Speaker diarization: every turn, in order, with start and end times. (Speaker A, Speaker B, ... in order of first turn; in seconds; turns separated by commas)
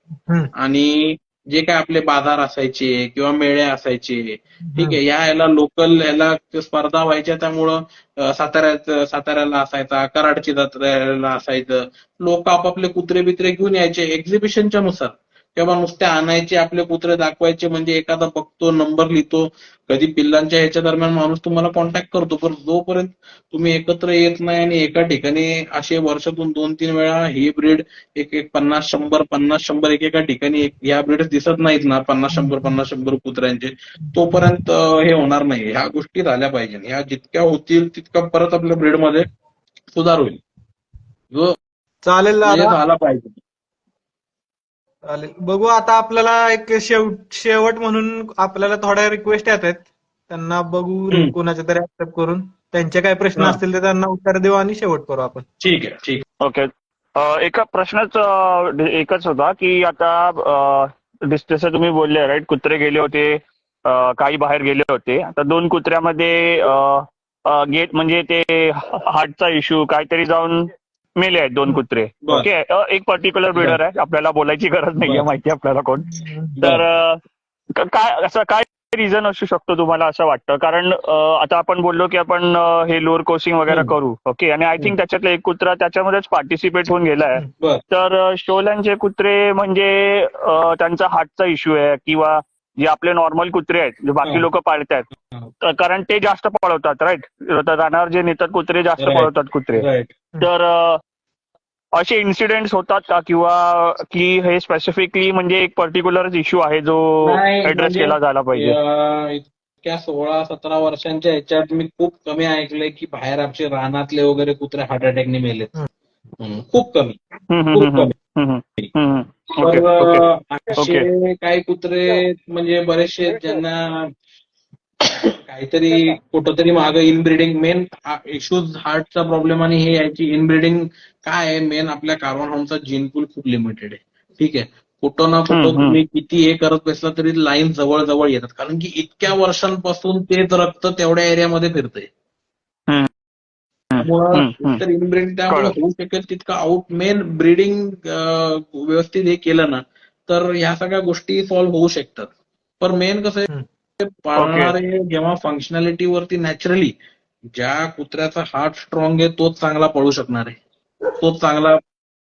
Speaker A: 0.6-39.3, Speaker B: 4.7-5.0, Speaker B: 32.3-32.7, Speaker A: 39.9-40.4, Speaker B: 42.0-42.8, Speaker A: 42.5-43.4, Speaker B: 45.1-55.4, Speaker A: 51.1-51.3, Speaker A: 55.6-56.2, Speaker C: 56.4-77.2, Speaker B: 76.1-76.5, Speaker A: 76.6-76.8, Speaker C: 77.7-95.1, Speaker A: 87.6-87.8, Speaker C: 95.6-99.8, Speaker A: 99.0-100.1, Speaker C: 100.4-101.0, Speaker C: 102.0-108.8, Speaker A: 107.2-115.7, Speaker A: 116.4-117.2, Speaker C: 117.5-120.2, Speaker A: 117.7-118.2, Speaker A: 119.6-124.1, Speaker C: 120.8-121.1, Speaker A: 125.0-142.1, Speaker C: 135.5-136.0, Speaker C: 143.9-144.8, Speaker A: 144.0-153.5, Speaker C: 145.5-145.8, Speaker A: 154.0-156.9, Speaker C: 154.4-154.8, Speaker A: 157.6-160.6, Speaker A: 161.2-161.8